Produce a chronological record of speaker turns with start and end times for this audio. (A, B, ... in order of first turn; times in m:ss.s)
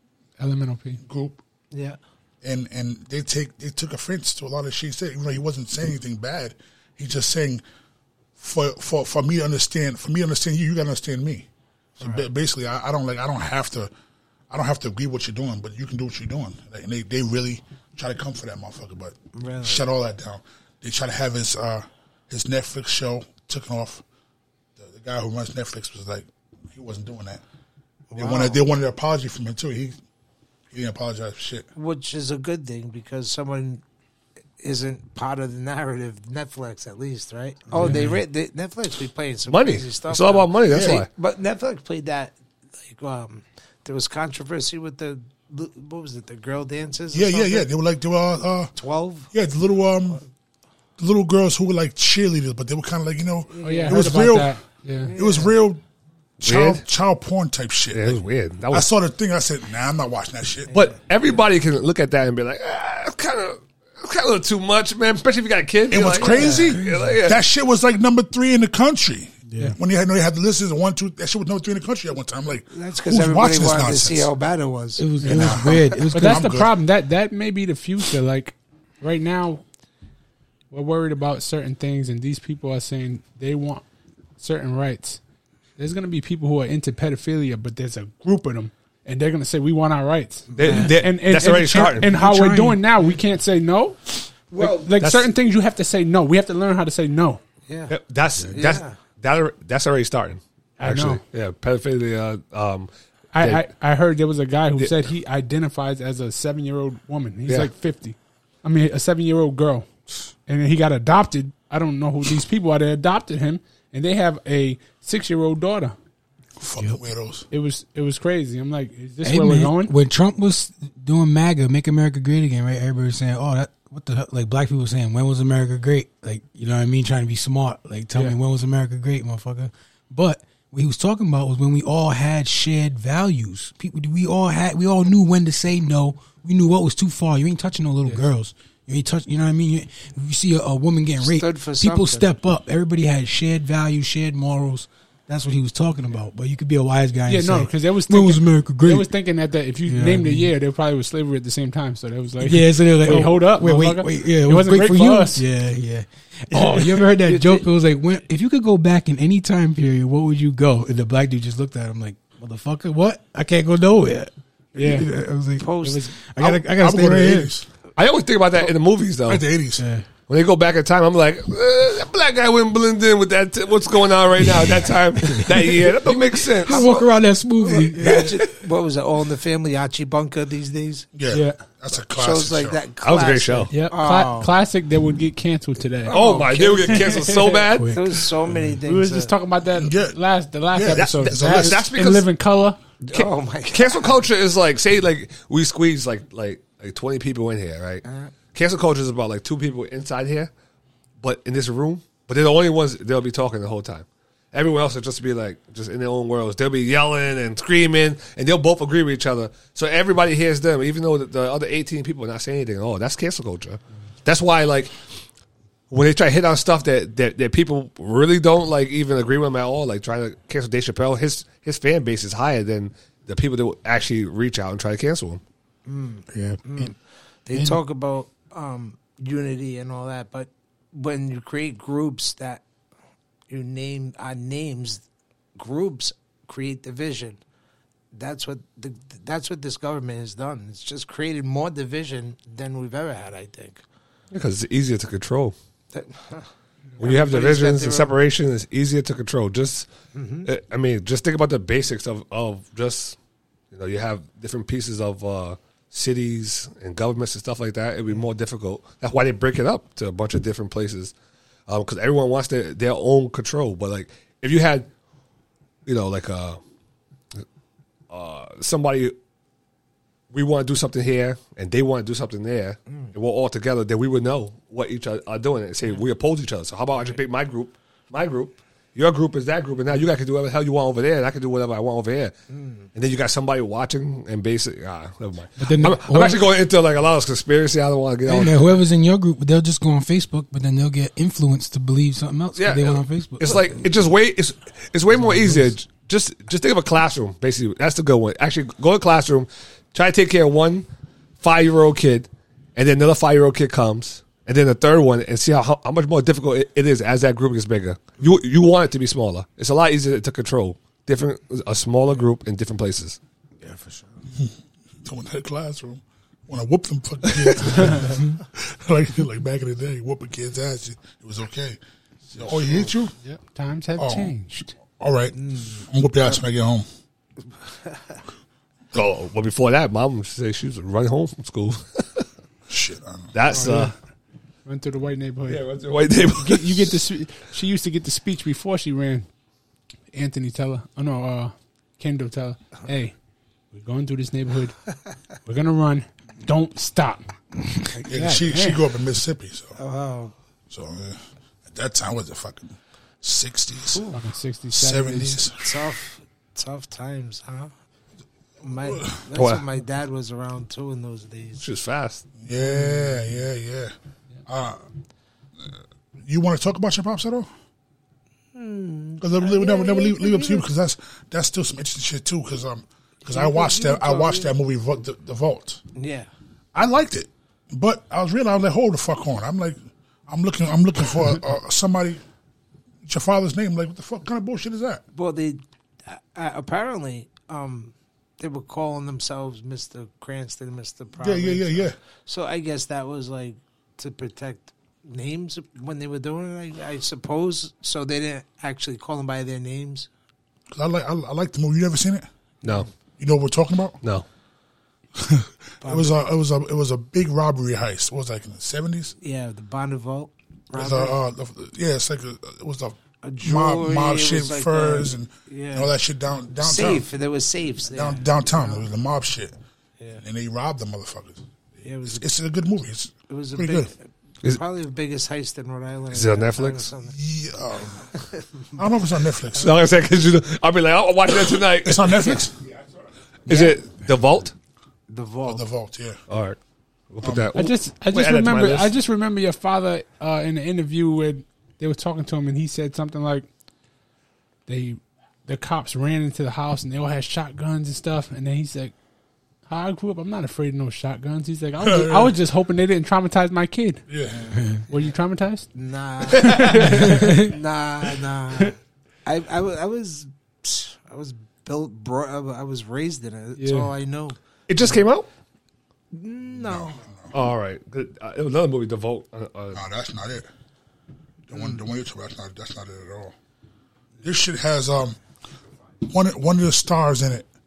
0:00.4-0:01.0 A
0:01.0-0:01.4 B
0:01.7-0:02.0 C
0:02.4-0:07.6 B
0:08.4-0:11.5 B
0:12.0-0:12.3 C
0:12.0-0:13.9 B
0:14.5-0:24.0 B
0:19.3-0:19.8 C
0:24.8-0:27.4 B
0:28.1-0:28.6 C
0:28.2-0:30.0 B
0:30.7-0:31.7 B
0:31.7-0:33.8 C
0:34.6-0:47.7 C
0:37.8-0:38.1 A
0:39.5-0:41.1 D
0:40.7-0:41.0 B
0:47.1-0:48.7 B
0:48.8-0:49.3 C
0:49.3-0:50.2 B
0:51.0-0:54.6 B
0:53.5-0:54.2 C
0:53.6-0:55.1 A
0:55.0-0:55.6 C
0:55.1-0:55.8 B
0:56.4-1:00.7 B
0:56.4-0:56.8 D
0:57.9-0:58.9 D
1:00.7-1:01.3 C
1:00.7-1:07.4 D
1:05.9-1:14.3 B
1:06.3-1:06.7 C
1:06.3-1:07.2 E
1:09.5-1:09.7 E
1:12.7-1:15.5 C
1:15.0-1:16.5 E
1:15.2-1:16.8 B
1:16.1-1:19.6 A
1:20.7-1:23.8 A
1:24.4-1:25.2 A
1:25.8-1:37.4 A
1:30.5-1:32.1 D
1:30.5-1:30.9 C
1:31.9-1:32.8 E
1:34.5-1:34.9 C
1:35.0-1:35.3 D
1:37.7-1:37.9 C
1:37.9-1:43.6 D
1:38.5-1:39.0 C
1:40.8-1:41.2 A
1:43.3-1:49.9 A
1:50.5-1:56.0 A
1:56.6-1:57.4 B
1:57.5-1:59.9 A
1:59.2-2:29.1 E
2:08.1-2:08.4 A
2:21.2-2:22.3 C
2:27.3-2:35.4 A
2:29.9-2:30.5 E
2:32.4-2:47.5 E
2:37.2-2:37.7 C
2:44.7-2:45.1 A
2:45.6-2:46.1 C
2:45.8-2:46.1 A
2:46.4-2:47.7 B
2:48.0-2:49.4 D
2:49.3-2:49.9 B
2:49.8-2:50.0 E
2:50.3-2:56.9 D
2:54.4-2:58.4 E
2:56.6-2:57.1 C
2:57.6-3:01.0 C
3:01.1-3:02.8 B
3:01.3-3:01.6 A
3:02.2-3:04.5 C
3:03.0-3:03.7 D
3:03.9-3:06.2 A
3:06.0-3:09.3 C
3:06.1-3:08.0 D
3:06.9-3:07.6 A
3:07.7-3:08.7 E
3:08.8-3:12.8 A
3:09.7-3:10.2 B
3:10.7-3:11.8 B
3:10.9-3:12.2 D
3:13.0-3:14.2 C
3:13.1-3:20.5 D
3:18.0-3:18.3 C
3:21.2-3:34.9 D
3:35.9-3:45.4 D
3:45.8-3:52.6 C
3:46.3-3:46.9 E
3:53.5-3:55.0 C
3:55.6-3:57.4 C
3:58.1-4:03.8 C
4:04.3-4:05.5 D
4:05.9-4:08.1 C
4:07.0-4:09.9 D
4:10.1-4:10.5 C
4:10.4-4:13.2 D
4:13.7-4:21.1 D
4:21.7-4:24.9 D
4:25.8-4:26.6 D
4:28.1-4:29.1 D
4:30.3-4:42.3 D
4:42.5-4:42.9 C
4:42.9-4:48.8 D
4:45.6-4:46.6 E
4:48.2-4:53.8 E
4:52.5-5:00.9 D
4:55.1-4:55.7 E
5:01.4-5:13.2 D
5:13.6-5:14.1 E
5:14.3-5:21.8 B
5:17.8-5:18.1 A
5:22.3-5:23.1 B
5:23.2-5:24.8 A
5:24.0-5:24.3 B
5:25.0-5:26.8 B
5:25.3-5:25.9 C
5:27.8-5:28.1 C
5:28.9-5:32.2 D
5:32.7-5:33.4 B
5:33.3-5:33.9 D
5:33.5-5:33.9 A
5:34.6-5:35.6 A
5:35.5-5:37.0 D
5:36.4-5:39.3 A
5:40.1-5:43.1 A
5:43.7-5:44.8 A
5:45.4-5:47.3 A
5:47.9-5:48.8 A
5:48.1-5:49.8 B
5:49.8-5:50.3 C
5:50.7-5:54.0 B
5:53.9-5:54.2 C
5:54.1-5:55.4 A
5:54.7-5:55.9 B
5:55.6-5:57.7 C
5:58.6-6:01.6 C
5:58.8-5:59.2 B
5:59.3-5:59.6 D
6:01.6-6:02.2 D
6:02.4-6:03.9 B
6:04.5-6:04.8 B
6:06.2-6:07.5 B
6:08.5-6:10.6 C
6:09.2-6:15.8 B
6:13.2-6:14.5 C
6:15.9-6:16.3 C
6:16.7-6:19.8 B
6:20.3-6:22.2 B
6:23.0-6:25.0 B
6:25.1-6:40.1 C
6:31.2-6:32.0 B
6:40.7-6:42.3 B
6:42.6-6:42.9 C
6:43.2-6:44.0 B
6:45.2-6:49.1 B
6:45.8-6:46.2 C
6:49.2-6:51.2 C
6:50.7-6:57.0 B
6:53.2-6:55.9 C
6:56.6-6:58.9 C
6:57.9-6:59.5 B
7:00.2-7:01.4 B
7:01.8-7:02.3 C
7:02.0-7:03.9 B
7:03.3-7:07.1 C
7:06.1-7:06.9 D
7:07.0-7:08.1 B
7:08.1-7:08.6 C
7:08.8-7:09.8 B
7:09.6-7:12.4 D
7:11.8-7:12.6 B
7:13.5-7:14.5 D
7:13.5-7:13.8 C
7:15.1-7:15.6 C
7:15.4-7:16.2 B
7:16.3-7:16.6 D
7:17.1-7:18.9 D
7:17.2-7:17.5 B
7:17.5-7:23.4 A
7:24.7-7:28.9 A
7:29.6-7:34.0 A
7:31.8-7:32.4 B
7:34.1-7:34.6 B
7:34.5-7:34.8 E
7:34.9-7:35.7 A
7:35.7-7:45.0 C
7:36.3-7:37.5 A
7:36.9-7:37.3 E
7:43.6-7:43.9 A
7:44.7-7:45.3 D
7:46.1-7:47.0 C
7:46.5-7:47.3 B
7:47.3-7:49.8 D
7:49.7-7:50.5 B
7:51.5-7:53.3 B
7:54.2-7:55.2 B
7:56.0-7:57.5 B